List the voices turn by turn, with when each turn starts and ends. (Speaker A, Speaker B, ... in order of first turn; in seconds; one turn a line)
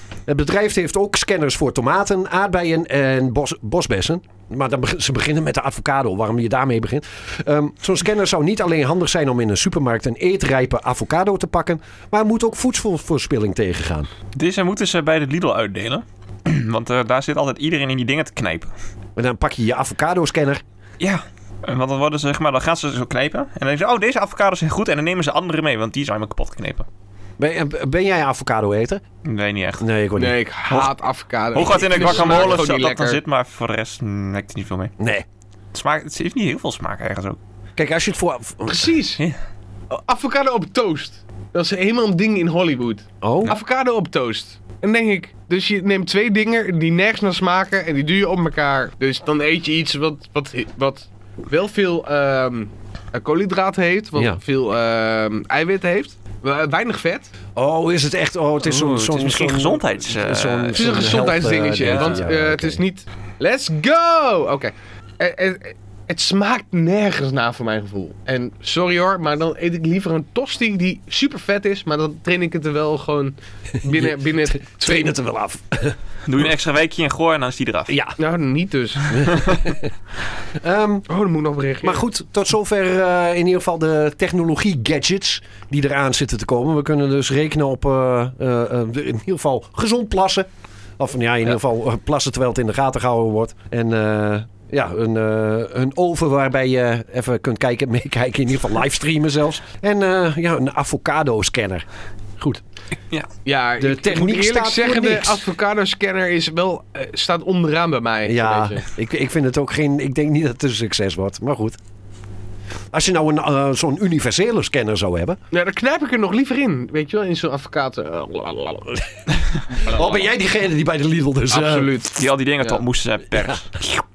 Speaker A: 0.3-14.1
Speaker B: 14.3-18.7
Speaker A: 19.2-20.6
Speaker B: 21.0-26.9
Speaker A: 27.4-29.0
Speaker B: 29.2-29.9
Speaker A: 29.8-30.4
Speaker C: 30.2-33.2
Speaker B: 31.5-34.9
Speaker A: 32.0-32.6
Speaker A: 35.0-35.3
Speaker B: 35.7-37.4
Speaker A: 37.8-38.9
Speaker C: 38.7-39.2
Speaker C: 39.9-57.3
Speaker A: 43.2-43.5
Speaker A: 57.6-62.8
Speaker B: 58.6-61.2
Speaker C: 60.8-75.1
Speaker B: 61.8-62.2
Speaker A: 73.9-76.0
Speaker B: 76.3-78.0
Speaker A: 77.9-78.2
Speaker C: 78.2-79.2
Speaker A: 79.1-79.9
Speaker A: 80.6-81.1
Speaker C: 81.1-82.0
Speaker A: 81.8-90.5
Speaker A: 91.0-101.8
Speaker C: 103.5-108.8
Speaker A: 103.8-105.5
Speaker A: 108.2-111.8
Speaker A: 112.9-115.4
Speaker C: 115.5-119.0
Speaker C: 119.7-120.2
Speaker A: 119.8-121.9
Speaker C: 121.5-122.8
Speaker B: 122.1-123.7
Speaker A: 123.5-124.0